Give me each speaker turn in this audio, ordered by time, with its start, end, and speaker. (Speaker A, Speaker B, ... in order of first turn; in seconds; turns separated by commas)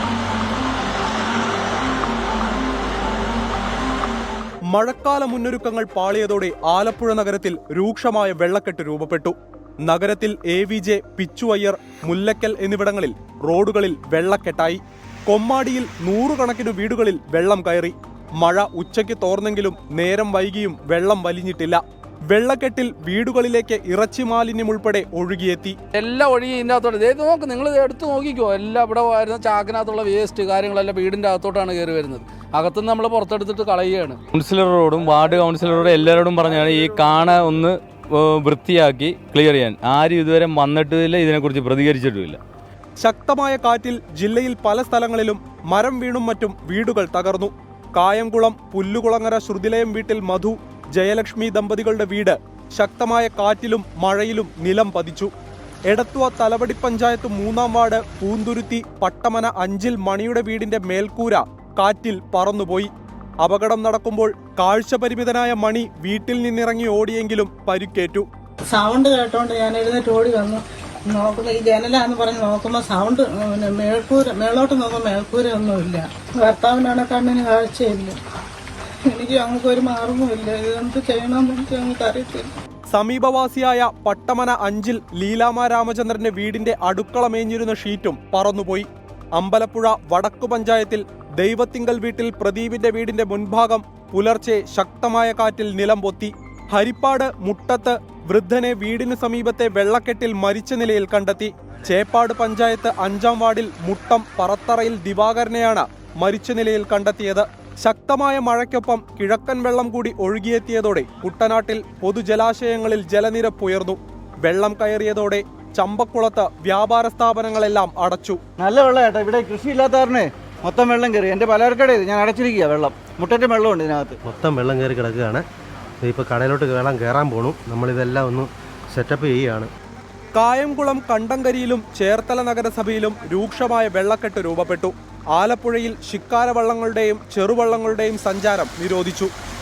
Speaker A: 4.7-25.8, Speaker B: 26.0-34.2, Speaker C: 34.3-42.4, Speaker A: 43.0-55.3, Speaker A: 55.9-62.9, Speaker A: 63.4-68.3, Speaker D: 68.7-78.2, Speaker D: 79.1-82.5, Speaker A: 82.9-118.4, Speaker E: 118.6-124.2, Speaker F: 124.2-125.4, Speaker F: 126.0-129.7, Speaker A: 130.3-139.3